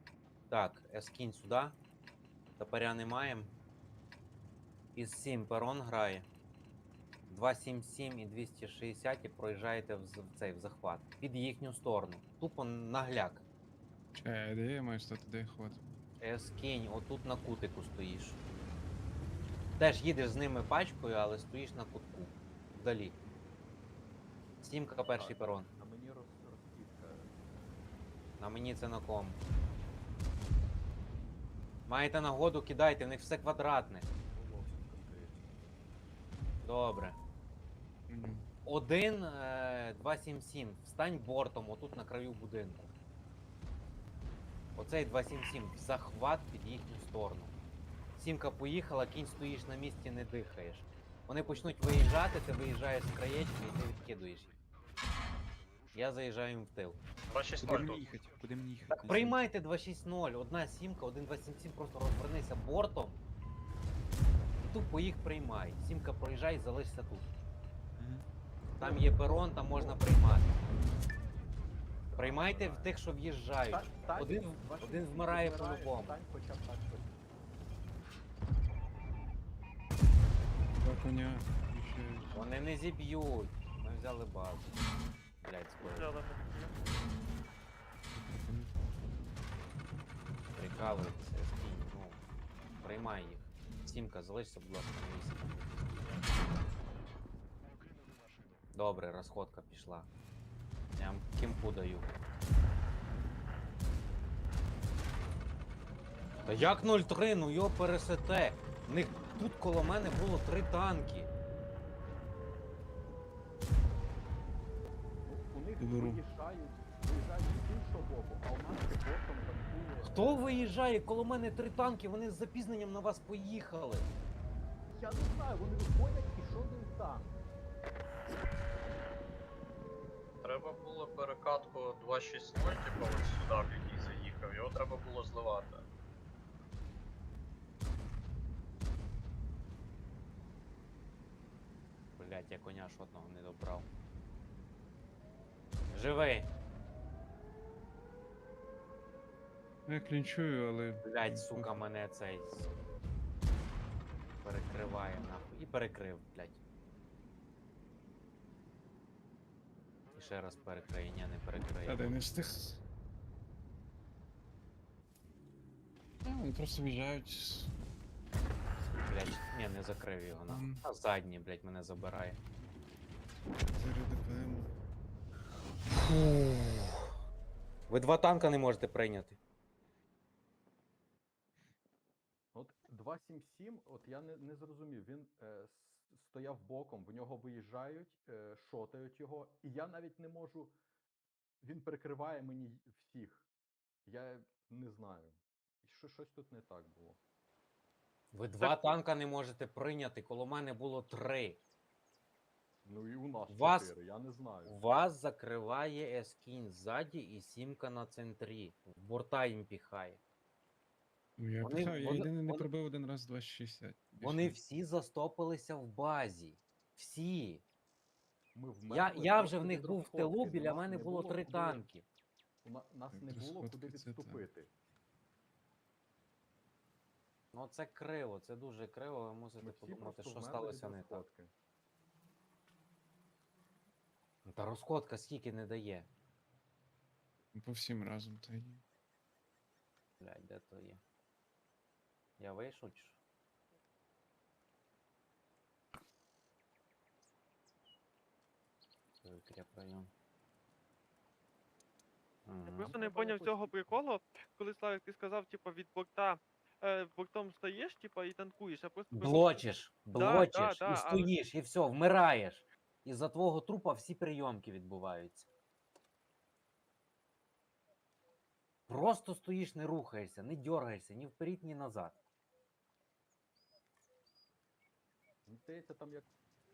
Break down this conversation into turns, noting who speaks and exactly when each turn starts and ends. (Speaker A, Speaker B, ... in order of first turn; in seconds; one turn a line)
Speaker A: 0.5-1.8
Speaker A: 2.6-3.5
Speaker A: 5.0-6.3
Speaker A: 7.3-13.4
Speaker B: 14.2-15.8
Speaker A: 16.2-18.4
Speaker A: 19.8-23.1
Speaker A: 24.6-25.7
Speaker C: 25.0-27.4
Speaker A: 28.4-29.4
Speaker A: 31.9-34.1
Speaker C: 34.2-35.8
Speaker A: 36.6-37.2
Speaker B: 38.1-38.5
Speaker A: 38.6-42.9
Speaker A: 44.8-47.5
Speaker A: 48.2-54.5
Speaker C: 51.4-52.1
Speaker A: 55.9-57.0
Speaker D: 57.3-58.1
Speaker E: 57.6-59.4
Speaker A: 58.9-63.2
Speaker A: 64.6-67.3
Speaker E: 68.0-68.3
Speaker C: 68.8-70.0
Speaker A: 68.8-70.5
Speaker C: 72.1-73.0
Speaker A: 72.2-76.2
Speaker C: 73.7-77.2
Speaker B: 80.8-82.4
Speaker A: 82.3-84.8
Speaker A: 85.4-86.1
Speaker F: 85.9-86.7
Speaker A: 90.5-92.2
Speaker A: 92.8-96.2
Speaker A: 98.7-100.1
Speaker A: 101.0-102.1
Speaker A: 106.5-111.3
Speaker C: 115.2-120.8
Speaker B: 115.8-116.2
Speaker A: 120.0-124.1
Speaker C: 124.9-127.4
Speaker D: 130.4-135.8
Speaker A: 142.2-143.9
Speaker A: 145.9-146.5
Speaker B: 149.9-151.8
Speaker A: 151.0-152.7
Speaker A: 154.4-156.6
Speaker A: 160.1-162.2
Speaker B: 161.8-162.8
Speaker B: 166.2-167.7
Speaker A: 168.9-172.4
Speaker B: 170.5-170.8
Speaker B: 173.7-174.7
Speaker A: 175.9-177.1
Speaker A: 177.9-179.4
Speaker C: 182.5-190.8
Speaker C: 191.6-193.5
Speaker C: 194.1-197.2
Speaker A: 198.3-201.6
Speaker F: 198.6-198.9
Speaker C: 202.8-204.8
Speaker A: 203.5-203.9
Speaker A: 204.7-210.2
Speaker B: 211.4-214.6
Speaker A: 211.6-212.7
Speaker A: 214.2-217.6
Speaker C: 218.6-221.8
Speaker A: 218.9-222.1
Speaker C: 222.6-224.7
Speaker B: 223.1-224.4
Speaker A: 227.5-231.2
Speaker C: 229.6-231.5
Speaker A: 234.4-236.1
Speaker B: 237.5-238.8
Speaker A: 240.2-241.0
Speaker A: 242.4-243.2
Speaker A: 249.2-250.1
Speaker A: 252.5-252.9
Speaker F: 252.7-261.3
Speaker C: 252.9-253.8
Speaker A: 259.1-265.5
Speaker A: 268.9-272.2
Speaker C: 275.5-276.3